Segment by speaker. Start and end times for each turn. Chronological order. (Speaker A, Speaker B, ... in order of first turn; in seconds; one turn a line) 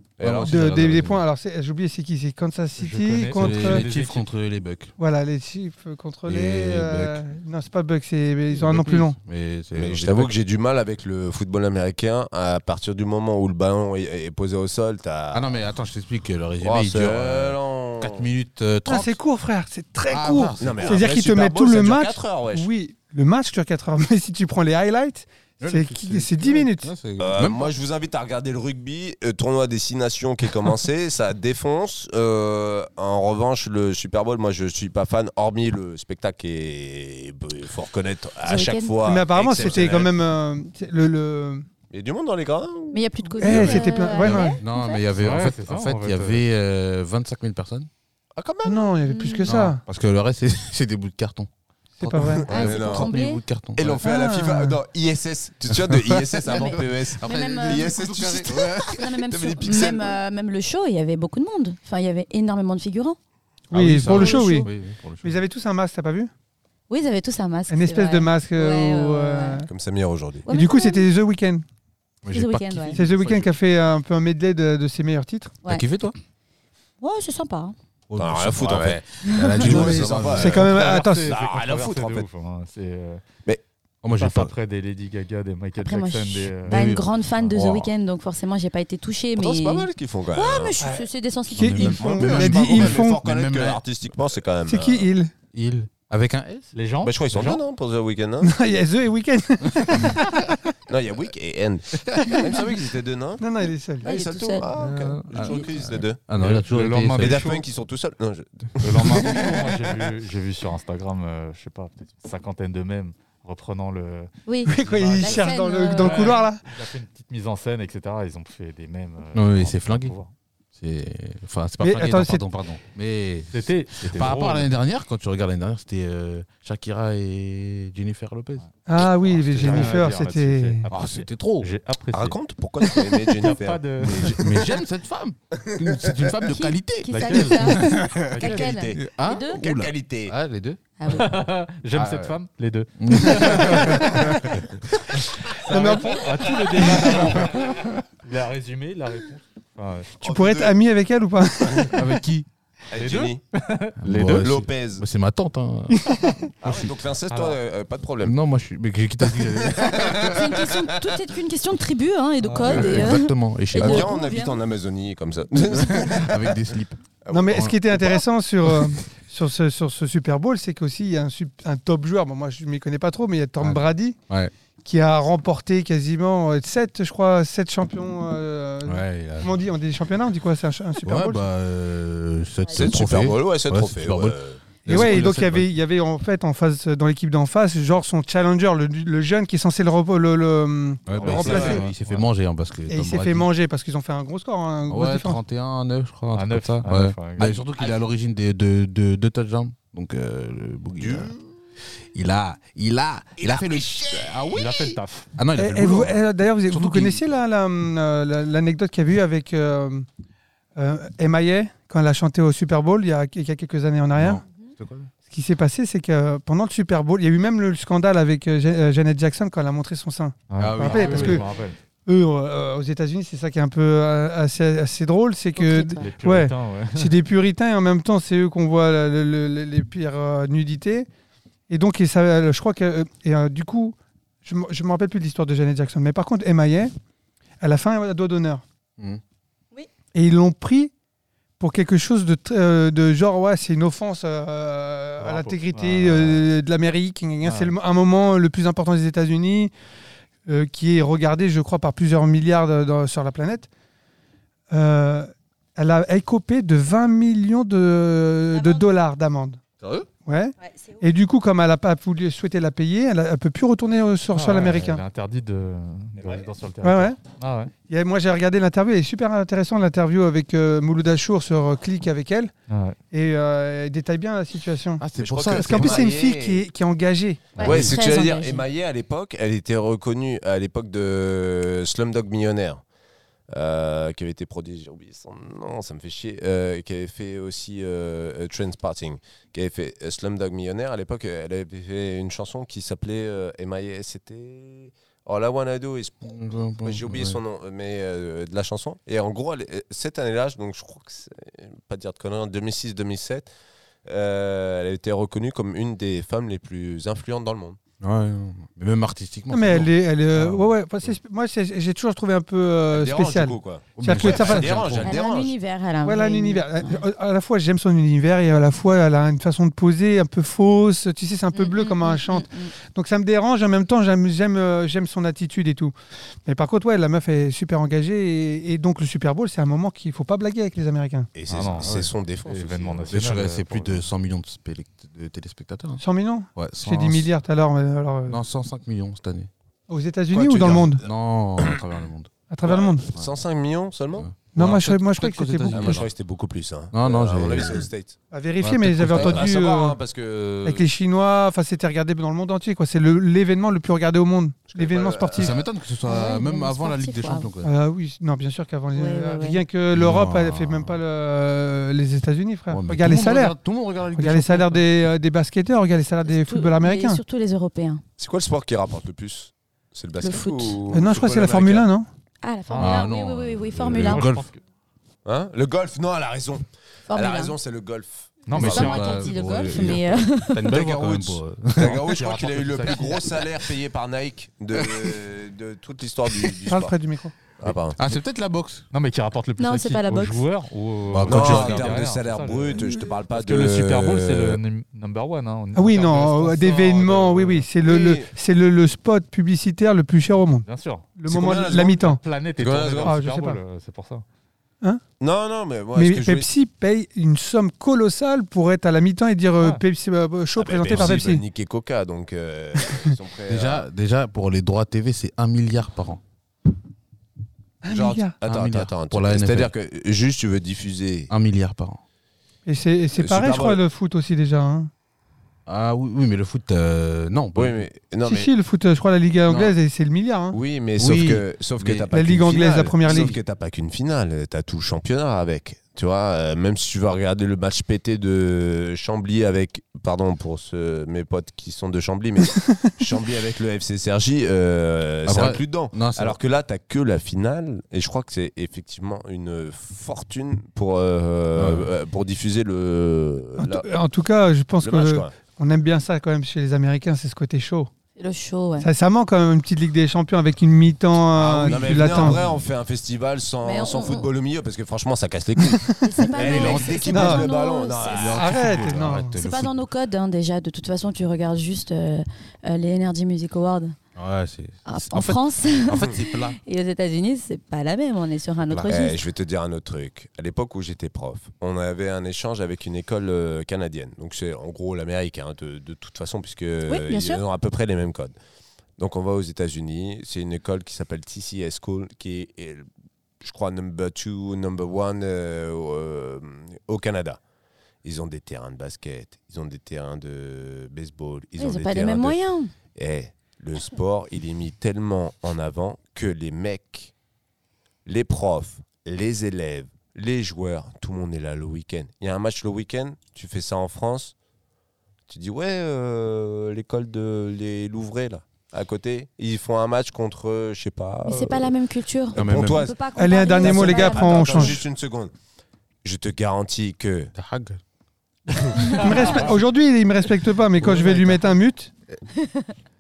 Speaker A: 0.2-1.1
Speaker B: 0.2-1.2
Speaker C: 0.4-3.9
Speaker D: 2.8-4.3
Speaker B: 3.3-4.9
Speaker C: 5.0-9.2
Speaker B: 6.3-7.2
Speaker B: 8.5-10.3
Speaker A: 9.7-15.6
Speaker B: 15.3-19.1
Speaker A: 16.6-18.3
Speaker C: 18.9-26.9
Speaker B: 20.1-21.0
Speaker A: 20.6-22.7
Speaker B: 25.6-27.7
Speaker A: 27.2-40.1
Speaker E: 38.5-39.0
Speaker C: 39.0-41.7
Speaker A: 41.9-44.0
Speaker E: 42.9-45.0
Speaker C: 43.4-44.6
Speaker B: 44.1-47.9
Speaker D: 45.2-46.4
Speaker A: 48.4-48.9
Speaker C: 48.6-49.8
Speaker E: 49.0-49.5
Speaker B: 49.5-51.5
Speaker C: 52.0-52.5
Speaker B: 52.0-54.1
Speaker A: 52.5-53.1
Speaker E: 52.5-53.4
Speaker A: 53.8-60.2
Speaker C: 54.0-54.8
Speaker B: 55.7-59.0
Speaker E: 56.4-57.9
Speaker E: 58.9-63.2
Speaker C: 63.7-64.7
Speaker B: 63.7-65.4
Speaker E: 64.0-64.7
Speaker C: 65.2-66.3
Speaker E: 66.9-69.7
Speaker C: 67.7-69.7
Speaker A: 69.7-70.5
Speaker E: 70.5-71.1
Speaker C: 70.5-71.7
Speaker B: 72.2-73.5
Speaker E: 72.3-73.0
Speaker C: 72.9-75.5
Speaker B: 75.7-76.2
Speaker E: 77.0-77.7
Speaker B: 78.1-80.8
Speaker A: 78.2-82.3
Speaker C: 79.5-81.3
Speaker D: 80.5-83.2
Speaker B: 84.0-84.5
Speaker D: 84.1-86.8
Speaker E: 85.8-92.0
Speaker B: 86.7-87.9
Speaker A: 89.4-90.9
Speaker B: 91.5-93.8
Speaker C: 91.6-93.2
Speaker A: 91.8-95.1
Speaker C: 94.7-95.3
Speaker B: 95.5-96.7
Speaker D: 96.7-97.6
Speaker A: 97.0-98.5
Speaker C: 98.4-100.6
Speaker B: 99.9-100.1
Speaker A: 100.9-103.4
Speaker B: 102.0-102.5
Speaker C: 103.4-104.1
Speaker A: 104.0-106.2
Speaker E: 104.0-104.7
Speaker B: 104.8-107.5
Speaker D: 106.4-107.7
Speaker A: 107.2-109.7
Speaker D: 108.8-120.3
Speaker E: 114.5-116.4
Speaker C: 114.7-116.6
Speaker B: 119.3-120.2
Speaker B: 120.7-128.7
Speaker C: 121.8-122.5
Speaker D: 123.5-124.7
Speaker D: 128.6-132.4
Speaker C: 128.9-130.9
Speaker B: 129.6-130.1
Speaker B: 130.9-131.7
Speaker A: 132.1-134.7
Speaker D: 132.9-134.3
Speaker B: 134.0-138.3
Speaker A: 135.5-136.3
Speaker E: 136.5-139.6
Speaker D: 137.1-138.7
Speaker A: 138.4-140.3
Speaker B: 139.0-140.8
Speaker E: 141.0-141.3
Speaker D: 141.1-144.5
Speaker B: 141.9-142.3
Speaker B: 143.0-145.0
Speaker D: 145.5-150.1
Speaker C: 145.7-147.1
Speaker B: 147.4-147.8
Speaker A: 150.2-150.8
Speaker C: 150.2-152.1
Speaker B: 151.9-152.5
Speaker A: 152.9-153.4
Speaker D: 152.9-154.5
Speaker B: 154.0-156.1
Speaker A: 154.1-155.1
Speaker C: 155.9-156.3
Speaker B: 156.6-157.0
Speaker A: 156.6-158.4
Speaker D: 157.3-157.6
Speaker B: 158.2-160.3
Speaker A: 159.5-160.9
Speaker E: 159.8-164.6
Speaker B: 162.4-164.2
Speaker A: 162.7-163.1
Speaker A: 163.8-166.7
Speaker B: 165.7-167.8
Speaker A: 167.2-167.6
Speaker C: 167.3-174.2
Speaker B: 173.6-174.5
Speaker C: 174.8-181.4
Speaker B: 178.9-179.5
Speaker B: 181.1-185.7
Speaker A: 182.7-185.2
Speaker C: 184.9-191.9
Speaker B: 191.1-193.5
Speaker D: 191.1-192.2
Speaker C: 192.9-195.4
Speaker B: 194.9-201.3
Speaker D: 196.3-197.6
Speaker A: 197.8-198.0
Speaker A: 201.0-201.4
Speaker B: 202.2-206.2
Speaker A: 203.4-204.9
Speaker D: 204.5-205.3
Speaker C: 205.6-210.1
Speaker B: 206.7-207.2
Speaker C: 210.8-214.4
Speaker B: 214.2-215.1
Speaker C: 215.3-221.4
Speaker D: 220.5-221.8
Speaker B: 220.6-221.5
Speaker C: 222.1-231.1
Speaker E: 225.6-226.1
Speaker D: 226.0-227.2
Speaker C: 231.7-236.9
Speaker C: 237.6-238.6
Speaker C: 240.1-240.9
Speaker C: 241.6-249.7
Speaker D: 245.2-246.4
Speaker D: 247.4-247.7
Speaker C: 250.5-253.7
Speaker C: 254.7-259.6
Speaker E: 258.5-258.9
Speaker B: 259.8-260.1
Speaker C: 260.2-265.0
Speaker E: 260.6-261.0
Speaker D: 264.3-267.7
Speaker C: 266.8-267.2
Speaker C: 267.9-272.5
Speaker D: 272.7-273.0
Speaker C: 273.1-275.0
Speaker B: 275.0-276.1
Speaker A: 275.2-276.6
Speaker C: 275.6-278.3
Speaker E: 277.6-278.6
Speaker A: 277.6-282.8
Speaker A: 283.5-296.3
Speaker B: 296.2-297.4
Speaker A: 296.8-303.5
Speaker A: 304.1-307.8
Speaker B: 308.0-310.7
Speaker C: 309.5-314.8
Speaker A: 312.9-315.5
Speaker B: 313.9-315.2
Speaker E: 315.0-317.0
Speaker C: 316.0-325.9
Speaker E: 321.5-322.7
Speaker C: 326.5-331.3
Speaker A: 331.4-333.2
Speaker D: 331.5-334.0
Speaker B: 333.1-336.0
Speaker C: 336.0-338.4
Speaker B: 336.6-337.3
Speaker B: 338.3-339.5
Speaker C: 339.9-341.0
Speaker A: 340.3-341.1
Speaker B: 340.9-342.3
Speaker C: 342.5-343.1
Speaker A: 342.7-344.3
Speaker B: 344.2-346.1
Speaker C: 344.6-346.0
Speaker A: 345.7-348.2
Speaker B: 346.9-347.9
Speaker C: 348.3-350.0
Speaker B: 348.6-349.5
Speaker A: 349.1-350.9
Speaker C: 350.6-355.6
Speaker A: 354.7-355.6
Speaker B: 355.4-357.7
Speaker E: 356.0-357.5
Speaker C: 357.6-363.6
Speaker E: 358.9-359.6
Speaker B: 359.9-360.9
Speaker B: 362.7-364.8
Speaker C: 364.1-367.2
Speaker E: 366.2-368.0
Speaker A: 368.2-371.9
Speaker E: 370.2-370.8
Speaker C: 370.9-372.1
Speaker E: 372.4-374.3
Speaker D: 372.7-373.1
Speaker B: 372.8-374.5
Speaker D: 374.0-374.6
Speaker A: 375.2-378.5
Speaker E: 377.1-377.6
Speaker D: 378.5-379.4
Speaker E: 378.5-380.8
Speaker B: 378.5-382.0
Speaker A: 380.8-381.1
Speaker D: 381.0-383.5
Speaker A: 381.8-386.9
Speaker C: 386.7-387.3
Speaker A: 387.6-388.0
Speaker B: 387.6-388.9
Speaker D: 388.9-397.7
Speaker E: 389.6-390.4
Speaker B: 391.1-392.0
Speaker A: 391.2-394.6
Speaker C: 395.8-400.6
Speaker A: 397.9-398.3
Speaker D: 400.7-401.1
Speaker C: 401.2-402.2
Speaker A: 401.3-403.1
Speaker D: 402.0-404.2
Speaker C: 402.8-403.6
Speaker A: 405.2-406.5
Speaker C: 405.9-411.4
Speaker A: 410.6-413.9
Speaker B: 410.9-411.2
Speaker C: 412.8-413.1
Speaker B: 413.5-416.2
Speaker C: 417.8-418.4
Speaker A: 417.9-421.3
Speaker B: 418.4-419.7
Speaker B: 421.3-422.0
Speaker C: 422.7-424.9
Speaker A: 423.2-423.8
Speaker B: 425.7-427.9
Speaker A: 427.6-428.5
Speaker C: 428.2-430.6
Speaker A: 430.5-453.9
Speaker B: 431.0-432.1
Speaker C: 432.1-433.4
Speaker B: 433.1-433.4
Speaker B: 445.2-446.4
Speaker B: 451.6-451.9
Speaker C: 453.6-457.9
Speaker A: 454.8-455.3
Speaker E: 458.2-458.9
Speaker C: 458.8-462.4
Speaker A: 461.3-468.9
Speaker B: 461.6-462.5
Speaker E: 463.6-464.3
Speaker C: 465.7-466.2
Speaker E: 466.0-468.4
Speaker B: 466.4-467.2
Speaker C: 467.1-467.5
Speaker B: 468.0-469.8
Speaker C: 468.4-469.4
Speaker E: 469.3-474.0
Speaker B: 474.2-476.6
Speaker E: 474.9-479.2
Speaker A: 478.9-488.4
Speaker E: 486.9-487.4
Speaker A: 489.0-492.9
Speaker A: 493.4-497.4
Speaker A: 498.0-502.4
Speaker E: 501.6-502.7
Speaker A: 502.9-507.1
Speaker A: 508.1-514.4
Speaker A: 515.3-521.7
Speaker E: 521.3-524.8
Speaker A: 522.3-525.3
Speaker B: 522.4-522.9
Speaker C: 523.2-524.9
Speaker A: 526.0-527.3
Speaker B: 527.4-527.8
Speaker A: 528.5-529.1
Speaker C: 528.9-531.9
Speaker D: 529.0-529.4
Speaker B: 530.8-531.5
Speaker E: 532.4-532.7